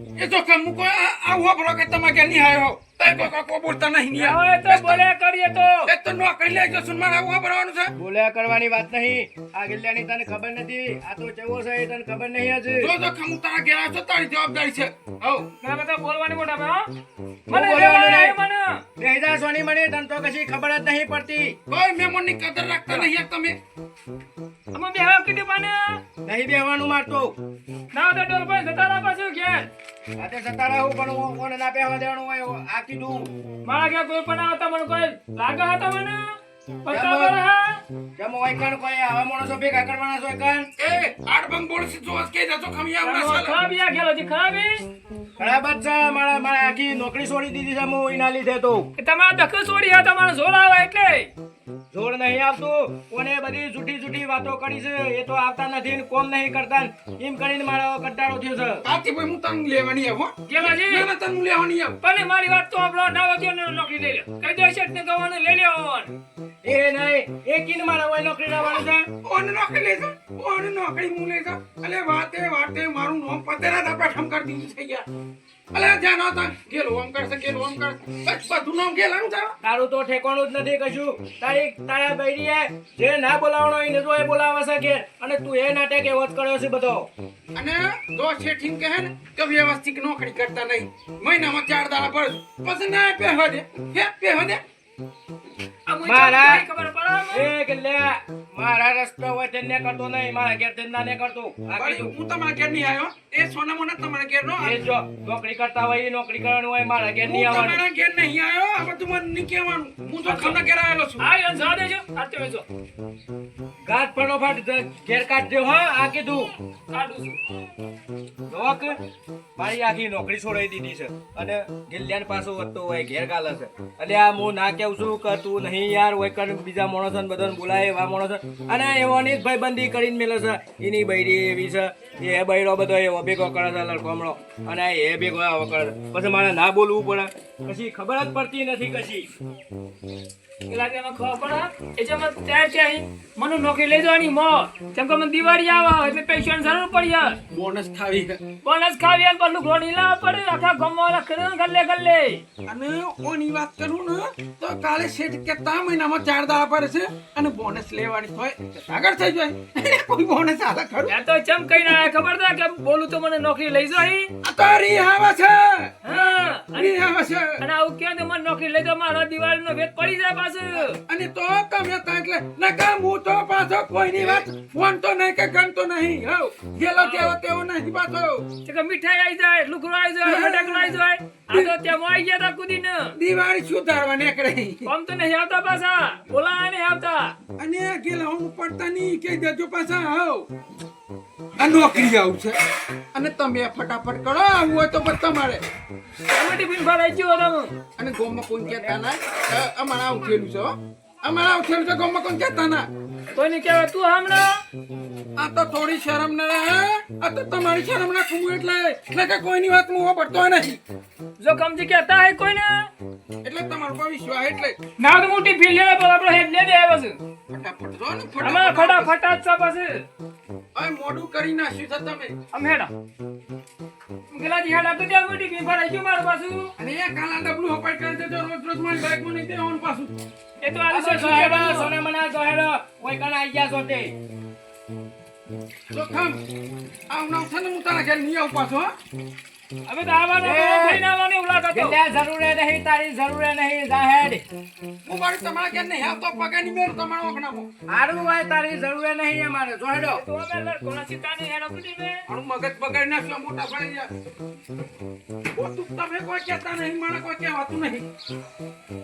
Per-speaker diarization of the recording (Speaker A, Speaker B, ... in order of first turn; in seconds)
Speaker A: 0.2-5.0, 5.9-7.9, 12.8-15.5, 21.7-23.5, 40.8-43.6, 58.8-62.0, 69.2-75.0, 75.7-79.5, 87.5-94.6, 101.7-104.8, 107.2-111.3, 147.5-148.4, 152.7-161.1, 164.4-167.6, 171.1-178.5, 180.2-181.0, 181.5-181.8, 183.1-184.9, 187.6-190.4, 191.6-192.6, 193.1-195.6, 198.0-202.8, 205.4-210.8, 213.4-214.8, 217.5-219.1, 220.8-222.3, 226.8-230.1, 235.9-236.4, 237.1-238.9, 245.0-247.7, 252.3-254.1, 255.5-258.1
Speaker B: 4.1-5.9, 15.6-16.9, 17.5-18.8, 24.7-26.0, 27.9-29.7, 33.6-37.8, 43.0-44.8, 49.0-51.3, 60.5-61.1, 62.0-66.1, 95.9-97.5, 110.3-110.6, 111.2-112.7, 116.9-117.4, 140.7-147.4, 148.6-152.4, 161.1-164.3, 166.0-167.0, 167.6-171.0, 177.0-177.3, 178.6-183.1, 184.8-187.3, 196.3-197.8, 203.3-204.6, 211.4-212.9, 215.0-217.1, 218.4-220.1, 222.5-222.9, 224.3-226.7, 230.6-231.9, 239.8-242.0, 250.1-252.2
Speaker C: 8.0-12.9, 17.5-18.4, 19.0-21.6, 26.2-27.3, 30.2-33.3, 36.9-37.4, 38.2-40.7, 45.4-48.9, 51.9-58.8, 66.6-69.1, 79.6-87.1, 96.0-96.7, 97.3-102.1, 104.6-107.8, 113.8-116.5, 118.5-119.0, 119.5-139.3, 230.9-234.1, 240.4-241.0, 241.7-244.4, 247.9-250.2